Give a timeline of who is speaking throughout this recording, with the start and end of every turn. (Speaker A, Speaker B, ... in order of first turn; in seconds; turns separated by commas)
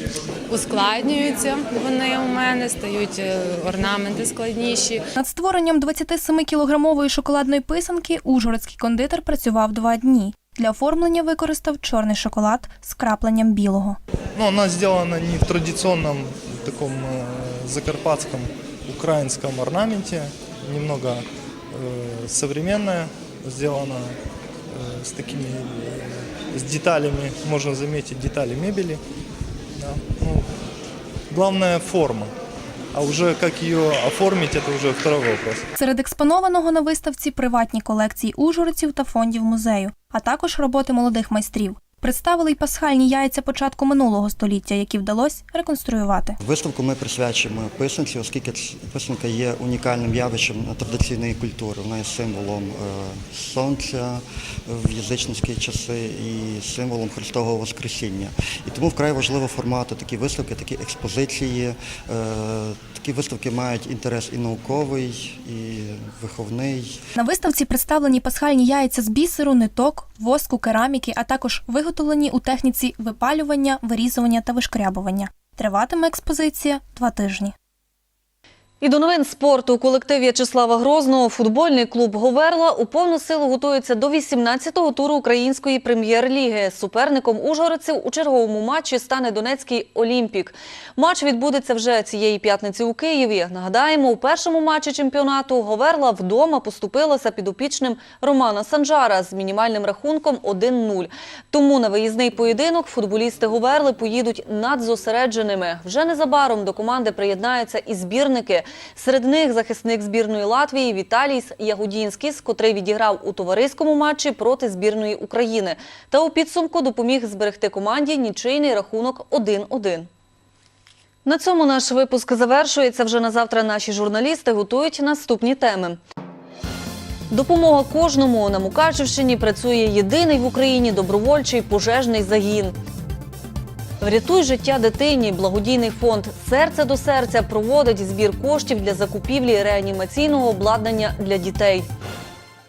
Speaker A: 0.5-5.0, Speaker B: 5.2-14.0, Speaker C: 14.4-21.2, Speaker C: 21.7-24.1, Speaker C: 24.7-25.9, Speaker C: 26.5-29.0, Speaker C: 29.8-30.4, Speaker C: 31.3-32.3, Speaker C: 32.9-35.6, Speaker B: 35.8-46.4, Speaker D: 46.4-66.8, Speaker B: 67.2-77.5, Speaker E: 78.8-120.1, Speaker E: 121.2-126.0, Speaker E: 127.3-132.7, Speaker E: 134.0-141.8